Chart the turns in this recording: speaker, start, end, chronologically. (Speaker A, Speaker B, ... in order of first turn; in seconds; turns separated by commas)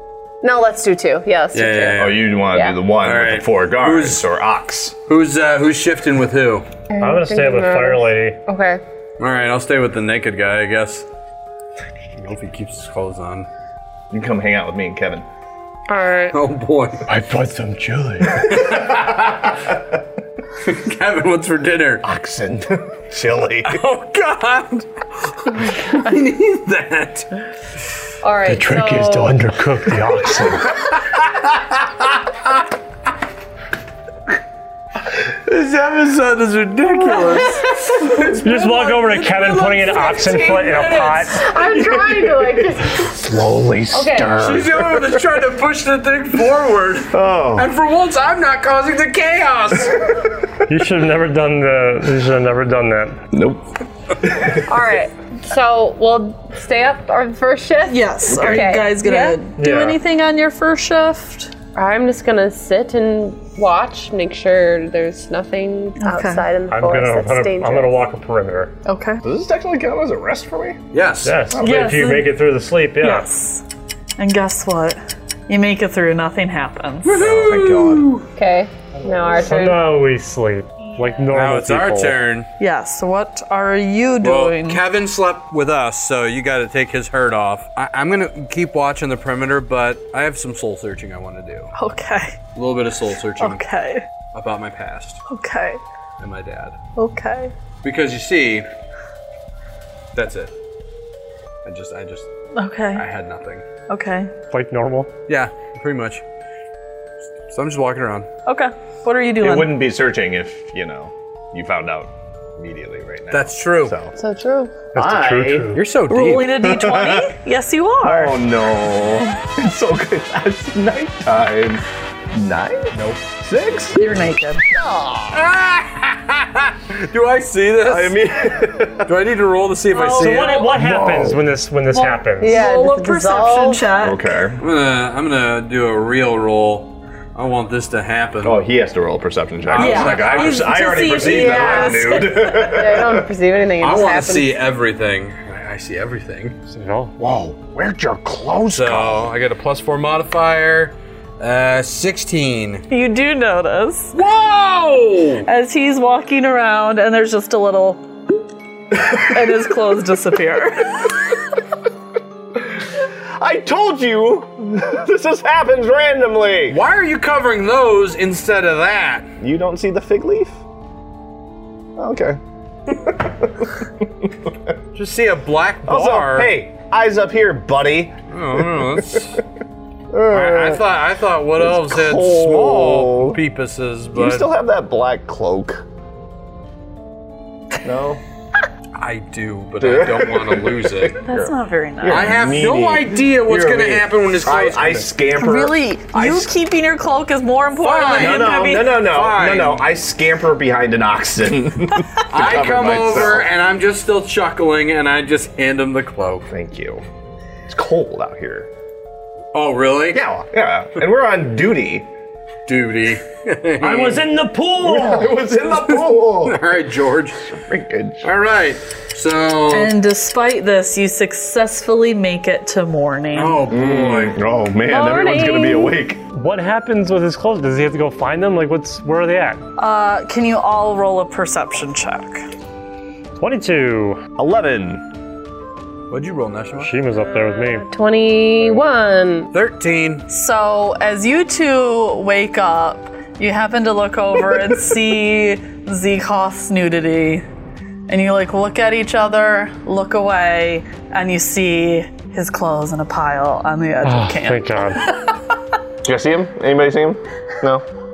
Speaker A: 0.4-2.8, Speaker B: 1.5-2.3, Speaker C: 2.0-5.0, Speaker B: 3.0-4.3, Speaker B: 5.1-6.7, Speaker A: 6.9-8.8, Speaker D: 7.0-8.4, Speaker B: 9.2-11.1, Speaker B: 12.2-13.5, Speaker C: 14.1-15.2, Speaker A: 15.9-16.4, Speaker B: 16.3-17.1, Speaker C: 17.1-19.8, Speaker B: 18.4-19.6, Speaker B: 20.6-22.1, Speaker C: 22.0-23.8, Speaker B: 23.6-27.4, Speaker A: 28.2-29.4, Speaker D: 28.5-30.7, Speaker B: 35.3-41.6, Speaker A: 37.1-38.3, Speaker D: 38.4-41.5, Speaker A: 41.3-43.2, Speaker C: 43.0-45.2, Speaker A: 43.9-44.4, Speaker B: 44.3-50.1, Speaker C: 47.1-47.7, Speaker D: 50.7-53.2, Speaker C: 53.3-53.6, Speaker C: 54.2-54.6, Speaker A: 54.5-59.4, Speaker E: 57.9-61.5, Speaker C: 58.3-58.6, Speaker D: 59.6-60.0, Speaker A: 61.8-68.0, Speaker E: 66.0-66.5, Speaker D: 66.7-68.7, Speaker E: 68.8-69.2, Speaker C: 69.2-70.8, Speaker B: 70.9-71.5, Speaker D: 71.2-73.3, Speaker C: 71.5-72.0, Speaker E: 71.6-72.4, Speaker E: 73.0-73.6, Speaker E: 74.2-77.2, Speaker B: 77.0-78.3, Speaker C: 77.1-78.1, Speaker A: 78.3-79.9, Speaker D: 79.2-82.2, Speaker B: 81.3-82.5, Speaker E: 82.6-84.8, Speaker B: 84.2-91.7, Speaker E: 91.8-92.4, Speaker B: 92.5-93.6, Speaker E: 93.4-94.1, Speaker B: 94.3-95.2, Speaker E: 95.3-95.8, Speaker B: 96.2-96.8, Speaker E: 97.0-97.5, Speaker B: 97.8-98.7, Speaker B: 100.1-100.5, Speaker B: 101.6-102.3, Speaker E: 102.5-103.0, Speaker B: 103.0-103.7, Speaker E: 103.9-104.3, Speaker D: 104.5-105.1, Speaker B: 105.3-106.2, Speaker B: 107.5-108.3, Speaker E: 108.5-109.9, Speaker C: 109.4-114.2, Speaker B: 113.3-114.0, Speaker A: 114.2-114.8, Speaker D: 114.9-115.8, Speaker C: 115.0-115.8, Speaker B: 115.8-116.6, Speaker E: 116.1-118.4, Speaker C: 116.6-117.3, Speaker C: 118.0-124.0, Speaker E: 124.0-124.6, Speaker C: 124.7-125.4, Speaker B: 125.3-128.2, Speaker C: 127.8-129.1, Speaker B: 129.1-130.7, Speaker E: 130.0-130.7, Speaker D: 130.1-132.7, Speaker C: 130.7-131.4, Speaker E: 131.9-134.2, Speaker A: 132.4-133.9, Speaker C: 134.0-134.6, Speaker B: 134.6-138.6, Speaker C: 138.4-143.3, Speaker B: 139.7-142.0, Speaker E: 139.8-142.6, Speaker A: 141.2-144.6, Speaker B: 143.8-146.6, Speaker D: 146.7-147.1, Speaker C: 147.2-149.3, Speaker B: 148.7-152.8, Speaker E: 152.9-154.2, Speaker B: 154.1-155.5, Speaker E: 155.4-158.1, Speaker E: 159.1-161.1, Speaker C: 163.4-166.8, Speaker B: 166.7-169.3, Speaker C: 169.4-170.6, Speaker C: 172.0-174.7, Speaker B: 174.9-176.5, Speaker C: 175.9-179.2, Speaker B: 178.3-179.4, Speaker C: 180.1-180.8, Speaker B: 180.3-184.5, Speaker C: 181.6-183.4, Speaker C: 184.2-185.8, Speaker C: 187.8-188.2, Speaker B: 189.0-191.2, Speaker C: 189.8-196.5, Speaker E: 191.2-192.4, Speaker B: 192.1-195.1, Speaker E: 195.4-199.1, Speaker B: 197.8-199.9, Speaker C: 198.1-203.5, Speaker B: 202.3-206.5, Speaker C: 206.5-207.0, Speaker C: 207.7-208.7, Speaker B: 209.5-210.2, Speaker C: 210.1-212.1, Speaker B: 212.7-214.3, Speaker D: 213.8-215.4, Speaker C: 214.8-216.6, Speaker B: 215.9-217.4, Speaker C: 217.5-218.3, Speaker B: 218.2-219.9, Speaker E: 219.7-223.6, Speaker B: 223.3-224.4, Speaker C: 223.7-226.2, Speaker A: 224.9-226.0, Speaker D: 226.3-229.6, Speaker E: 229.8-232.4, Speaker D: 233.4-234.2, Speaker C: 234.4-235.0, Speaker B: 236.1-236.9, Speaker D: 236.8-237.9, Speaker A: 237.4-239.5, Speaker B: 239.5-240.3, Speaker E: 240.3-247.4, Speaker E: 248.1-255.3, Speaker D: 254.0-255.0, Speaker C: 256.0-257.9